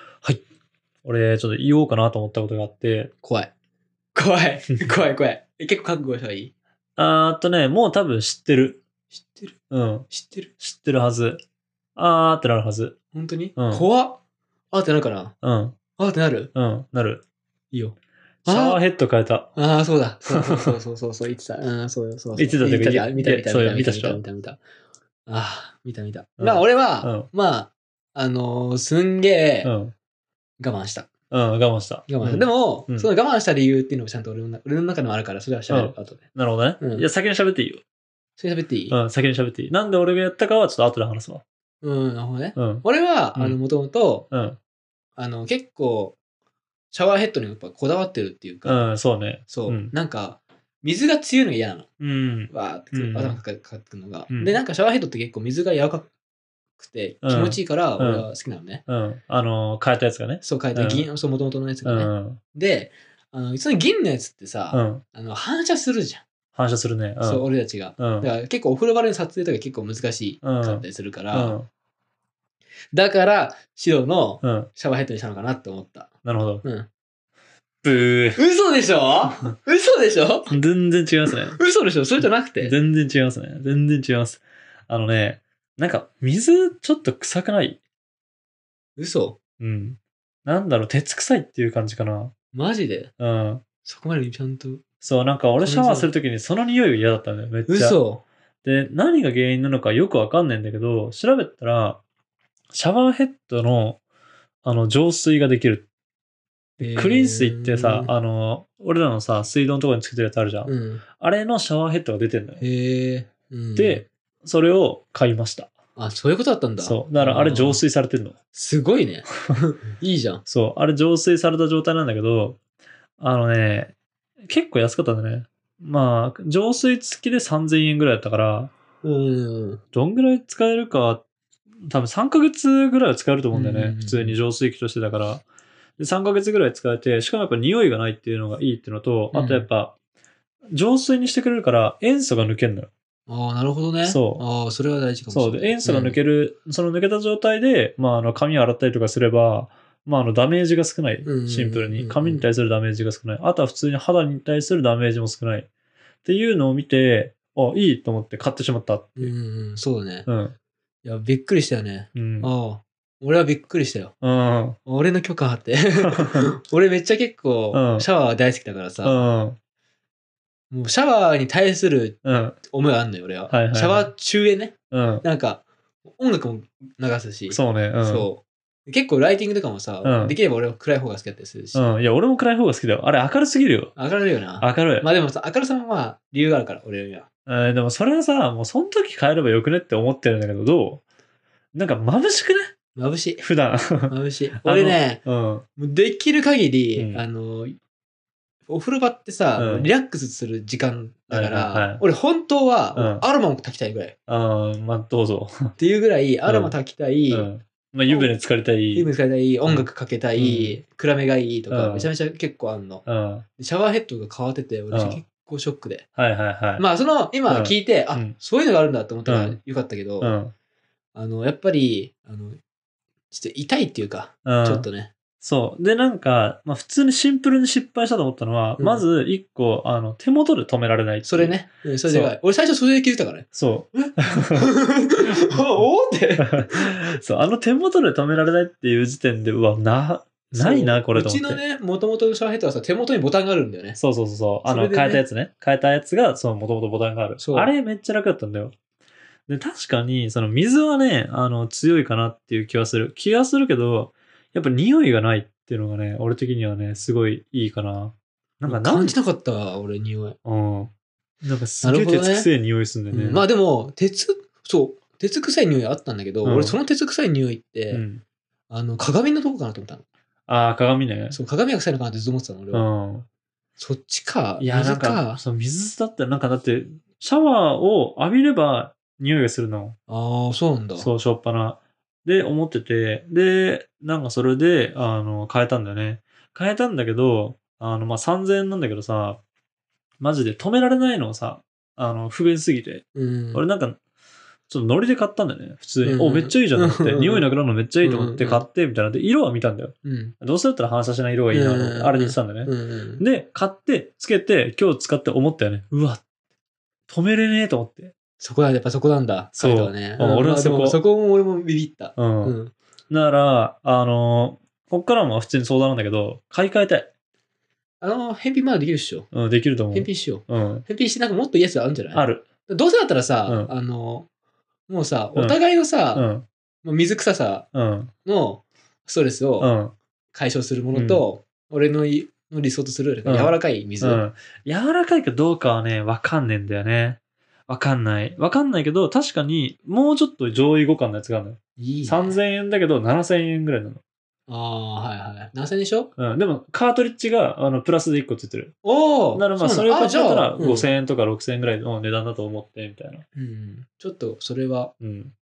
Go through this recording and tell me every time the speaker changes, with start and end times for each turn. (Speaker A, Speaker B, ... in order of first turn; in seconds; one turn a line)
Speaker A: 1.0-3.1
Speaker B: 3.2-3.5
Speaker B: 4.2-6.5
Speaker A: 7.0-8.8
Speaker B: 9.1-9.6
Speaker A: 9.7-10.1
Speaker B: 10.1-10.5
Speaker A: 10.6-11.4
Speaker A: 12.0-13.0
Speaker B: 13.1-14.2
Speaker A: 13.6-13.8
Speaker B: 14.7-15.3
Speaker A: 15.4-15.8
Speaker B: 16.0-16.5
Speaker A: 16.6-17.2
Speaker A: 18.4-19.6
Speaker B: 18.5-18.8
Speaker B: 19.6-24.6
Speaker A: 20.3-20.6
Speaker A: 22.4-24.2
Speaker B: 25.3-29.7
Speaker A: 26.4-27.3
Speaker A: 29.6-29.9
Speaker B: 30.6-31.1
Speaker A: 31.3-33.1
Speaker B: 32.1-36.2
Speaker A: 35.7-37.8
Speaker B: 36.8-37.1
Speaker B: 38.4-39.0
Speaker A: 38.9-41.4
Speaker B: 41.8-44.3
Speaker A: 42.6-43.6
Speaker A: 44.3-44.6
Speaker B: 45.2-46.2
Speaker B: 46.9-48.9
Speaker A: 48.6-49.9
Speaker B: 49.5-51.9
Speaker A: 52.0-53.4
Speaker B: 52.5-56.1
Speaker A: 54.3-54.6
Speaker B: 56.8-58.8
Speaker A: 57.2-58.3
Speaker A: 58.9-61.1
Speaker B: 60.4-66.2
Speaker A: 61.8-62.4
Speaker A: 64.7-65.0
Speaker A: 66.6-67.5
Speaker B: 67.2-71.6
Speaker A: 68.0-68.3
Speaker A: 70.4-71.7
Speaker B: 72.9-76.1
Speaker A: 74.4-74.7
Speaker A: 76.2-76.6
Speaker B: 76.6-76.9
Speaker A: 77.8-78.4
Speaker B: 78.4-80.5
Speaker A: 80.5-81.6
Speaker B: 81.5-82.8
Speaker A: 82.6-87.8
Speaker B: 89.0-89.4
Speaker A: 89.6-92.3
Speaker B: 92.5-93.1
Speaker A: 93.2-93.6
Speaker B: 93.8-94.8
Speaker A: 95.0-98.0
Speaker B: 95.6-96.1
Speaker B: 97.7-98.2
Speaker A: 98.6-102.0
Speaker A: 102.7-104.0
Speaker A: 104.6-105.9
Speaker A: 106.8-112.6
Speaker B: 106.8-108.1
Speaker B: 110.7-111.0
Speaker B: 112.6-114.1
Speaker A: 113.8-115.7
Speaker B: 116.0-117.8
Speaker A: 116.8-118.4
Speaker B: 118.5-120.4
Speaker A: 120.5-122.6
Speaker A: 123.2-124.0
Speaker A: 124.5-128.7
Speaker B: 129.0-129.8
Speaker A: 129.9-131.2
Speaker A: 131.8-135.4
Speaker B: 133.5-134.4
Speaker A: 136.0-139.9
Speaker B: 139.3-139.7
Speaker A: 140.7-142.9
Speaker B: 143.3-146.2
Speaker A: 144.0-144.4
Speaker A: 145.3-155.7
Speaker B: 151.2-152.5
Speaker A: 156.2-159.3
Speaker B: 159.2-160.3
Speaker A: 160.3-160.5
Speaker B: 161.0-164.1
Speaker A: 162.2-162.5
Speaker A: 164.2-164.8
Speaker B: 164.9-169.2
Speaker A: 167.7-168.1
Speaker A: 169.0-169.6
Speaker B: 170.7-182.0
Speaker A: 172.2-172.6
Speaker A: 173.5-174.1
Speaker A: 174.9-175.2
Speaker A: 177.5-178.3
Speaker A: 180.0-180.4
Speaker A: 181.8-183.9
Speaker B: 184.0-187.3
Speaker A: 184.6-185.1
Speaker A: 187.5-191.0
Speaker A: 191.7-192.8
Speaker B: 192.9-193.4
Speaker A: 193.4-194.1
Speaker B: 194.1-195.2
Speaker A: 194.7-195.7
Speaker B: 195.8-197.8
Speaker A: 197.0-197.2
Speaker B: 198.7-204.2
Speaker A: 199.6-199.9
Speaker A: 201.3-202.0
Speaker A: 202.9-203.2
Speaker A: 204.3-205.7
Speaker B: 205.8-207.5
Speaker A: 206.5-206.7
Speaker A: 207.3-209.1
Speaker B: 208.9-213.0
Speaker A: 210.4-210.8
Speaker A: 211.7-212.1
Speaker A: 213.1-213.4
Speaker B: 213.6-216.1
Speaker A: 214.9-215.2
Speaker A: 216.2-216.8
Speaker B: 216.8-220.4
Speaker A: 217.5-218.3
Speaker A: 219.3-219.6
Speaker A: 220.2-220.5
Speaker B: 221.1-222.6
Speaker B: 223.3-225.1
Speaker A: 224.4-224.9
Speaker A: 225.4-232.3
Speaker B: 228.8-229.1
Speaker B: 231.3-237.1
Speaker A: 233.5-234.7
Speaker A: 236.4-241.6
Speaker B: 240.5-244.0
Speaker A: 244.0-248.7
Speaker B: 244.7-245.2
Speaker B: 247.4-247.7
Speaker A: 249.5-259.1
Speaker B: 258.7-260.4
Speaker A: 260.4-263.4
Speaker B: 261.8-262.5
Speaker B: 263.1-268.1
Speaker A: 266.4-266.8
Speaker A: 267.9-268.2
Speaker B: 268.7-270.0
Speaker A: 270.5-271.4
Speaker B: 271.3-272.9
Speaker A: 272.7-273.3
Speaker B: 273.8-275.4
Speaker A: 274.6-280.0
Speaker B: 280.1-281.1
Speaker A: 281.0-289.4
Speaker A: 290.2-294.0
Speaker B: 293.1-293.6
Speaker A: 294.7-306.2
Speaker B: 296.0-297.5
Speaker B: 298.0-298.6
Speaker B: 300.0-300.4
Speaker B: 301.5-303.2
Speaker A: 307.1-308.1
Speaker B: 308.4-312.7
Speaker A: 309.6-311.0
Speaker A: 312.2-312.6
Speaker A: 313.1-317.1
Speaker B: 318.0-319.3
Speaker A: 319.3-320.9
Speaker B: 319.9-324.3
Speaker A: 322.1-322.5
Speaker B: 324.9-326.3
Speaker A: 326.1-326.5
Speaker B: 326.8-327.7
Speaker A: 327.7-328.1
Speaker B: 328.2-329.7
Speaker A: 329.6-329.9
Speaker B: 330.3-334.2
Speaker A: 330.9-331.2
Speaker A: 333.2-344.0
Speaker B: 341.8-342.4
Speaker B: 344.5-346.1
Speaker A: 346.2-348.8
Speaker B: 348.8-350.9
Speaker A: 349.4-353.2
Speaker B: 353.4-354.9
Speaker A: 355.0-355.3